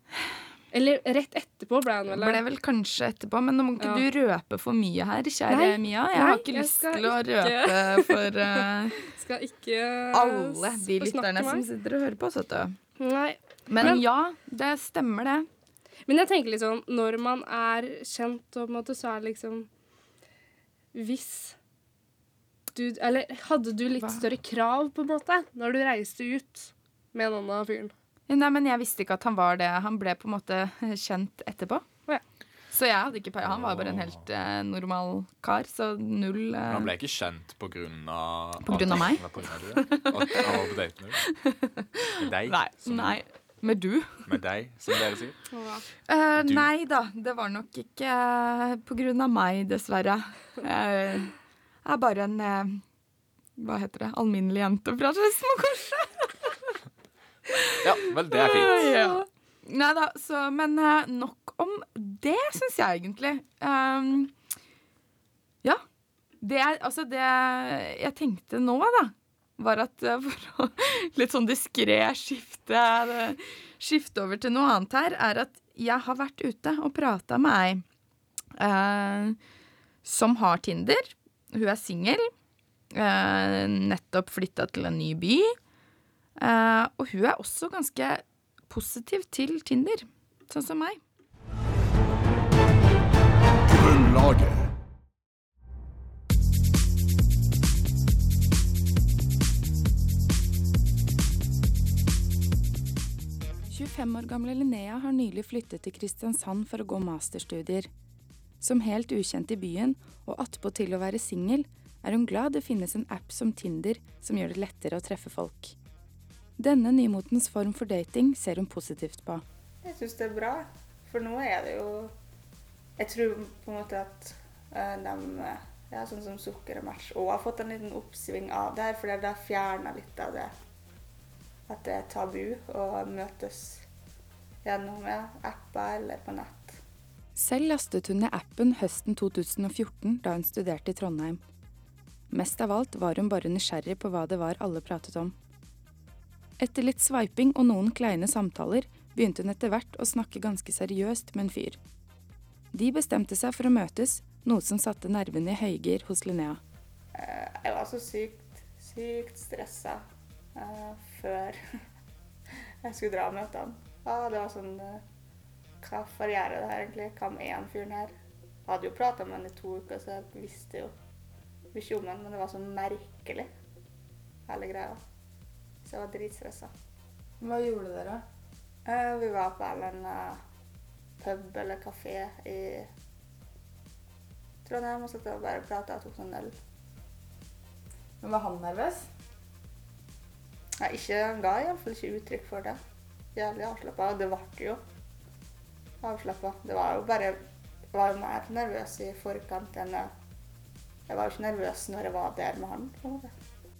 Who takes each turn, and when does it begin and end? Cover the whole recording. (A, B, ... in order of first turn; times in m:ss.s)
0:00.7-0:02.4 A
0:02.1-0:09.0 B
0:03.8-0:04.0 A
0:05.5-0:11.6 A
0:10.1-0:12.8 B
0:13.0-0:14.0 A
0:13.7-0:15.5 B
0:16.1-0:19.7 A
0:20.9-0:21.6 A
0:22.7-0:27.9 A
0:28.3-0:31.8 B
0:32.7-0:36.9 B
0:33.4-0:34.2 C
0:36.6-0:41.2 C
0:38.6-0:44.3 B
0:42.2-0:43.2 C
0:44.2-0:45.4 C
0:45.5-0:45.8 A
0:46.1-0:52.8 B
0:46.4-0:46.7 C
0:53.6-0:56.5 B
0:57.5-1:04.3 B
0:57.8-0:58.9 C
0:58.8-0:59.1 A
1:06.4-1:17.8 B
1:18.6-1:19.4 B
1:20.0-1:22.3 B
1:22.9-1:25.5 B
1:26.4-1:31.0 B
1:43.7-1:47.9 B
1:48.6-1:55.7 B
1:56.6-1:59.4 B
1:59.8-2:02.1 D
2:03.0-2:10.5 D
2:11.7-2:13.8 D
2:14.6-2:16.8 D
2:17.3-2:21.4 B
2:22.3-2:25.3 B
2:26.6-2:31.8 B
2:32.7-2:36.6 B
2:37.1-2:40.0 D
2:40.5-2:41.6 D
2:42.8-2:45.0 D
2:45.8-2:48.1 D
2:48.6-2:50.9 D
2:51.7-2:53.5 D
2:54.5-2:55.0 D
2:55.8-2:56.7 D
2:57.4-2:58.2 B
2:58.8-3:00.4 D
3:01.2-3:02.9 D
3:04.6-3:06.5 D
3:08.2-3:09.1 B
3:10.8-3:12.8 D
3:13.3-3:14.8 D
3:16.0-3:17.4 D
3:17.9-3:20.1 D
3:21.1-3:23.3 D